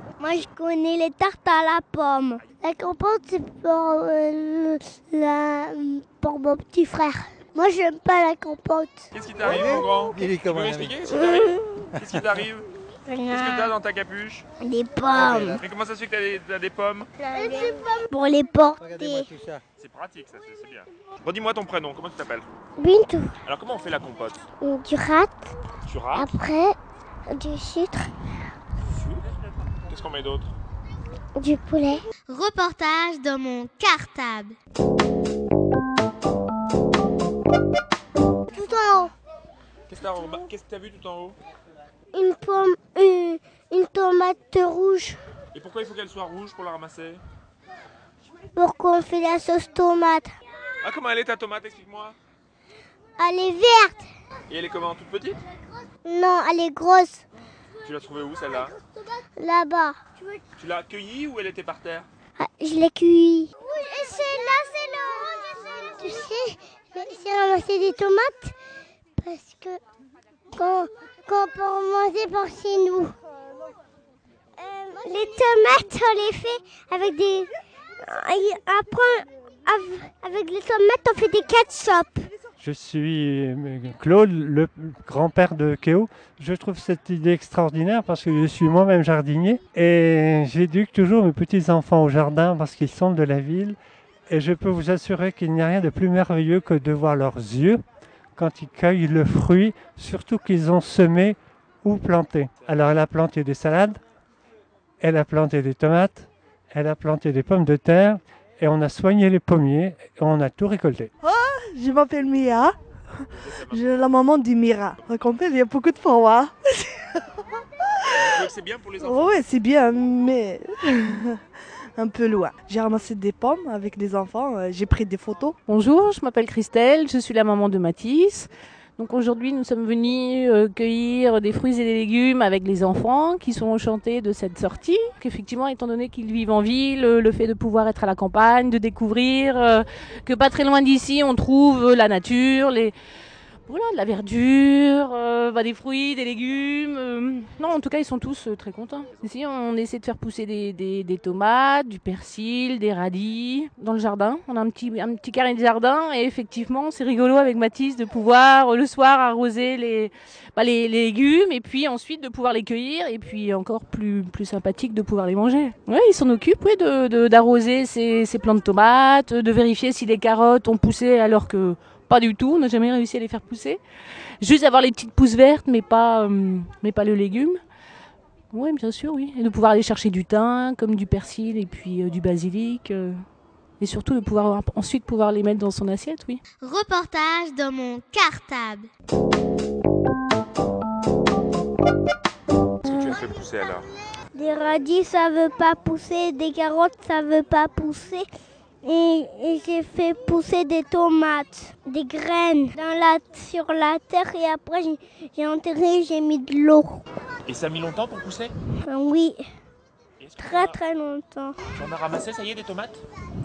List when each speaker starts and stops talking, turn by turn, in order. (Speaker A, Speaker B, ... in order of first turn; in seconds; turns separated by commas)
Speaker A: 0.2-9.1, Speaker B: 9.1-12.7, Speaker C: 9.4-11.1, Speaker A: 11.1-11.8, Speaker C: 11.9-12.3, Speaker A: 13.1-13.7, Speaker B: 13.3-14.4, Speaker A: 14.6-15.6, Speaker B: 15.1-17.1, Speaker A: 17.2-19.3, Speaker C: 18.8-19.6, Speaker B: 19.8-22.4, Speaker A: 22.8-23.3, Speaker B: 23.4-24.4, Speaker A: 24.6-25.5, Speaker B: 25.9-26.4, Speaker A: 26.1-26.8, Speaker A: 27.3-28.1, Speaker B: 28.9-29.2, Speaker B: 29.9-30.6, Speaker A: 31.4-32.0, Speaker D: 32.3-34.6, Speaker A: 38.5-39.1, Speaker B: 39.9-41.4, Speaker A: 42.1-45.2, Speaker B: 45.5-47.2, Speaker A: 48.5-50.3, Speaker B: 50.8-52.2, Speaker A: 53.2-54.0, Speaker B: 54.5-55.4, Speaker A: 56.0-57.2, Speaker B: 57.8-58.8, Speaker A: 58.8-60.4, Speaker B: 60.6-62.1, Speaker A: 62.4-68.5, Speaker A: 69.2-69.8, Speaker A: 70.5-73.1, Speaker A: 74.6-77.5, Speaker A: 78.0-82.3, Speaker E: 82.6-93.8, Speaker E: 94.3-97.8, Speaker E: 98.4-104.0, Speaker E: 105.0-111.1, Speaker F: 111.2-112.8, Speaker B: 113.3-114.0, Speaker F: 113.7-117.1, Speaker B: 118.1-119.4, Speaker F: 118.2-118.5, Speaker F: 119.0-121.4, Speaker F: 122.0-125.6, Speaker G: 125.7-142.9, Speaker G: 143.7-173.8, Speaker G: 174.4-177.6, Speaker G: 178.5-183.1, Speaker G: 183.8-186.4, Speaker D: 186.6-188.9, Speaker B: 192.8-193.9, Speaker A: 192.9-193.1, Speaker A: 194.3-198.2, Speaker A: 198.8-207.0, Speaker B: 207.4-208.5, Speaker A: 208.8-209.4, Speaker B: 210.2-210.8, Speaker A: 210.4-211.6, Speaker B: 211.7-213.0